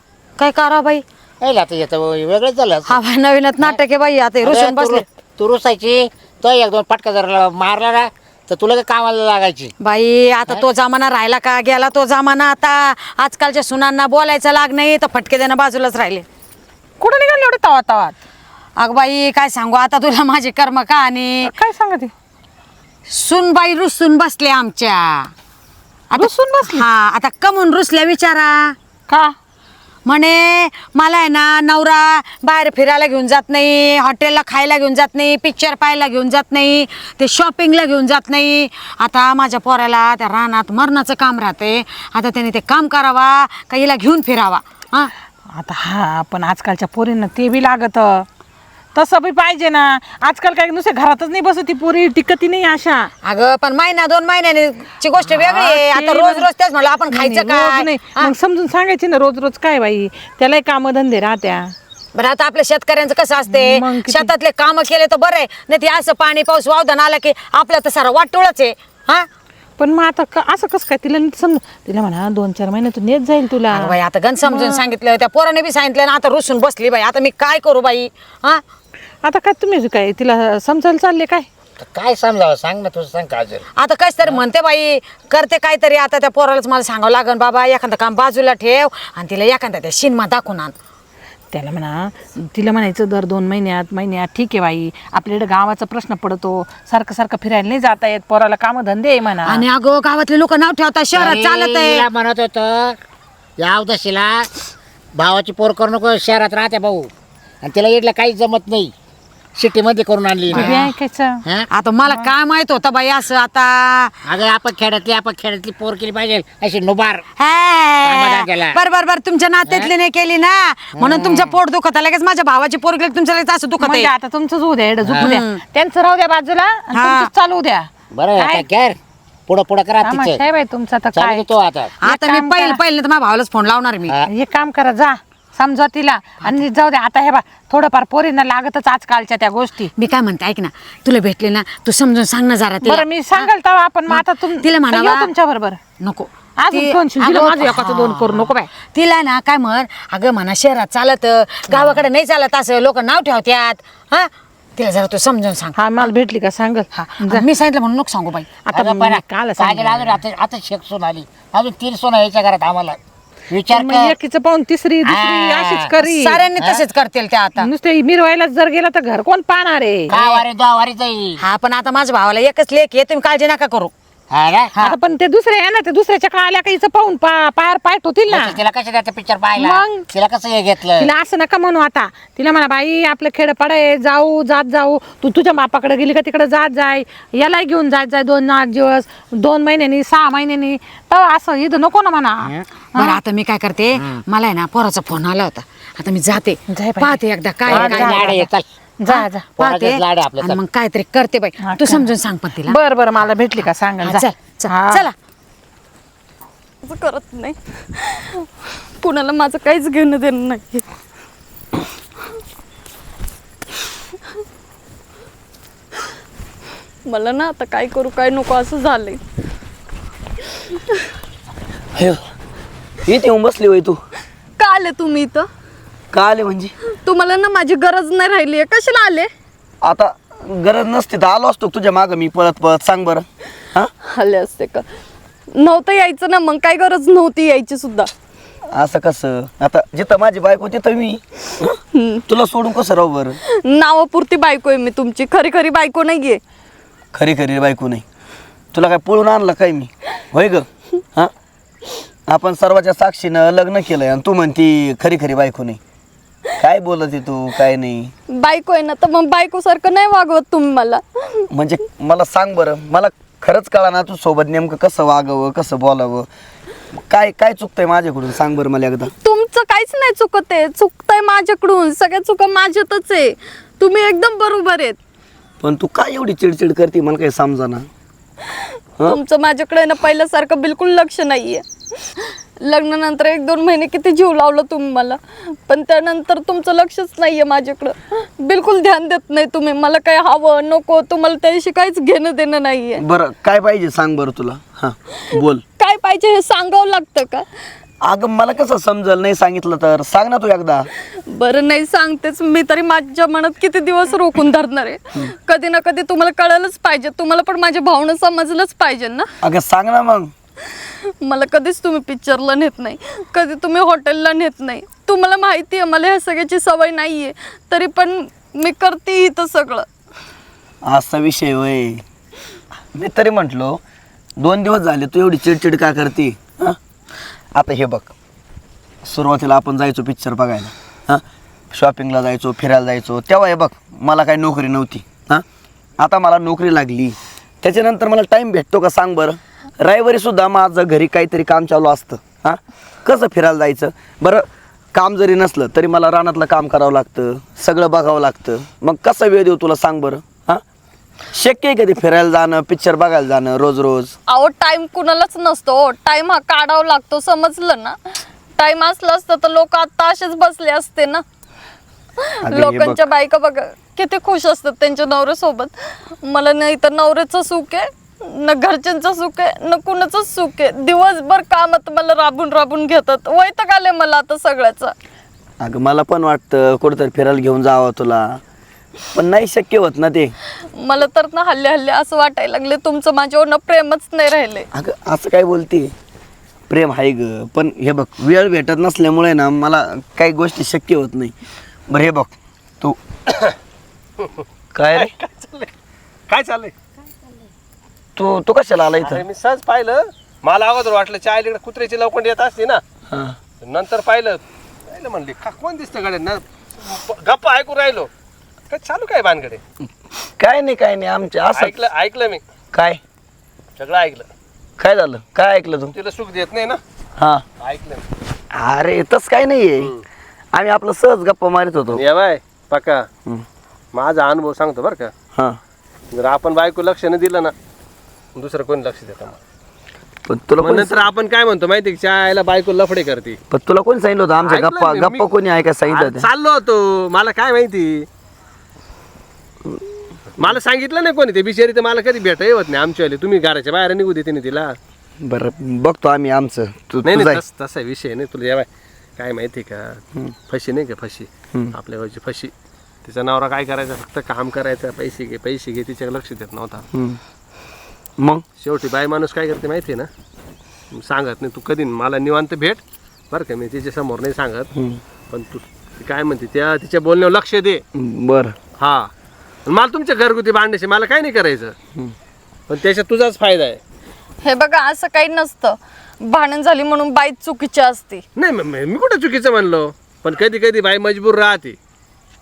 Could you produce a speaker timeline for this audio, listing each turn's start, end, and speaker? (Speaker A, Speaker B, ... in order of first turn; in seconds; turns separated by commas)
Speaker A: 0.4-1.0, Speaker B: 1.4-3.0, Speaker A: 2.9-5.0, Speaker B: 4.4-9.7, Speaker A: 9.8-16.2, Speaker C: 17.0-18.2, Speaker A: 18.8-21.5, Speaker C: 21.4-22.1, Speaker A: 23.1-25.3, Speaker A: 26.1-28.8, Speaker C: 26.1-26.9, Speaker C: 29.1-29.3, Speaker A: 30.1-45.1, Speaker C: 45.6-48.3, Speaker C: 49.0-53.1, Speaker A: 53.2-58.3, Speaker C: 55.2-56.5, Speaker C: 57.1-61.7, Speaker A: 62.1-69.3, Speaker C: 63.4-64.3, Speaker C: 69.8-74.8, Speaker A: 73.7-78.6, Speaker C: 79.2-81.5, Speaker B: 81.8-83.6, Speaker A: 83.8-90.7, Speaker C: 91.5-99.7, Speaker A: 99.4-102.1, Speaker B: 101.2-103.0, Speaker B: 103.6-104.5, Speaker B: 105.2-107.1, Speaker B: 107.6-108.9, Speaker B: 109.5-110.8, Speaker A: 110.5-110.9, Speaker C: 110.5-111.4, Speaker A: 111.7-114.2, Speaker C: 112.0-112.3, Speaker B: 114.3-117.2, Speaker A: 117.4-124.1, Speaker B: 118.0-118.8, Speaker B: 120.9-121.5, Speaker C: 123.8-128.7, Speaker A: 125.1-125.6, Speaker A: 126.9-127.3, Speaker B: 128.1-129.0, Speaker B: 129.5-130.4, Speaker C: 130.0-131.5, Speaker B: 131.1-131.9, Speaker A: 132.0-134.2, Speaker C: 132.0-132.8, Speaker C: 134.2-139.9, Speaker A: 140.0-143.5, Speaker C: 142.8-145.8, Speaker A: 144.1-145.3, Speaker A: 146.0-156.1, Speaker C: 146.6-148.7, Speaker C: 155.8-157.5, Speaker A: 156.9-158.5, Speaker C: 158.7-160.2, Speaker B: 158.7-163.0, Speaker B: 163.5-164.2, Speaker C: 163.7-166.5, Speaker B: 165.1-165.9, Speaker A: 165.9-167.7, Speaker C: 167.6-170.5, Speaker B: 170.1-171.4, Speaker A: 171.4-173.9, Speaker B: 174.3-174.7, Speaker C: 174.8-178.6, Speaker B: 178.3-181.1, Speaker C: 179.6-180.1, Speaker C: 180.9-193.2, Speaker A: 193.0-198.5, Speaker C: 196.7-198.5, Speaker B: 197.7-198.7, Speaker C: 199.0-199.6, Speaker A: 199.1-202.8, Speaker B: 199.6-200.6, Speaker C: 201.6-205.1, Speaker A: 204.0-205.1, Speaker D: 206.8-208.5, Speaker D: 209.0-210.8, Speaker D: 217.1-219.2, Speaker E: 221.9-222.2, Speaker E: 223.1-224.0, Speaker D: 224.6-225.5, Speaker E: 226.1-226.7, Speaker D: 227.0-229.3, Speaker E: 229.8-233.9, Speaker D: 234.1-234.8, Speaker D: 235.6-238.1, Speaker E: 238.7-241.8, Speaker D: 241.9-242.2, Speaker E: 242.3-243.4, Speaker D: 243.6-246.4, Speaker E: 247.1-248.0, Speaker E: 248.7-251.3, Speaker E: 252.3-255.8, Speaker E: 256.6-258.1, Speaker D: 258.3-261.5, Speaker E: 261.5-266.3, Speaker E: 266.9-269.1, Speaker D: 269.2-275.0, Speaker E: 275.6-277.9, Speaker D: 279.1-293.0, Speaker E: 293.0-295.6, Speaker D: 295.8-297.5, Speaker E: 298.0-300.9, Speaker D: 301.3-309.3, Speaker E: 309.4-310.3, Speaker D: 311.2-319.9, Speaker E: 320.8-322.0, Speaker E: 322.9-323.8, Speaker E: 324.4-326.8, Speaker E: 327.6-328.1, Speaker E: 329.0-335.4, Speaker E: 336.0-350.6, Speaker E: 351.3-354.1, Speaker D: 354.3-361.2, Speaker E: 362.4-363.1, Speaker D: 362.5-374.9, Speaker E: 375.6-378.4, Speaker E: 379.1-380.3, Speaker D: 380.8-384.7, Speaker E: 384.7-385.9, Speaker E: 386.7-391.4, Speaker E: 391.9-393.0, Speaker E: 394.7-395.1, Speaker F: 394.9-395.7, Speaker F: 396.3-396.7, Speaker E: 398.2-399.2, Speaker F: 399.0-402.8, Speaker E: 403.1-403.4, Speaker F: 403.6-408.1, Speaker F: 408.7-409.6, Speaker E: 410.4-411.8, Speaker F: 411.5-412.4, Speaker E: 412.7-413.0, Speaker F: 413.8-414.3, Speaker E: 414.8-415.9, Speaker F: 415.9-416.8, Speaker E: 417.2-417.4, Speaker F: 417.6-418.1, Speaker E: 418.5-419.9, Speaker E: 420.5-422.0, Speaker F: 421.9-423.1, Speaker F: 423.9-425.1, Speaker F: 426.1-427.5, Speaker F: 428.4-429.4, Speaker E: 430.3-431.1, Speaker F: 430.6-433.4, Speaker E: 433.5-436.3, Speaker F: 434.4-435.3, Speaker F: 435.9-438.1, Speaker F: 440.4-444.8, Speaker E: 445.2-447.4, Speaker F: 447.0-448.7, Speaker F: 449.2-452.5, Speaker F: 453.1-456.9, Speaker E: 456.9-457.2, Speaker E: 458.2-458.4, Speaker F: 458.6-460.1, Speaker F: 460.9-464.7, Speaker E: 464.7-465.0, Speaker F: 465.3-467.8, Speaker E: 467.9-468.6, Speaker F: 468.8-469.1, Speaker F: 469.7-471.8, Speaker F: 472.7-473.8, Speaker D: 474.4-478.2, Speaker F: 478.4-481.8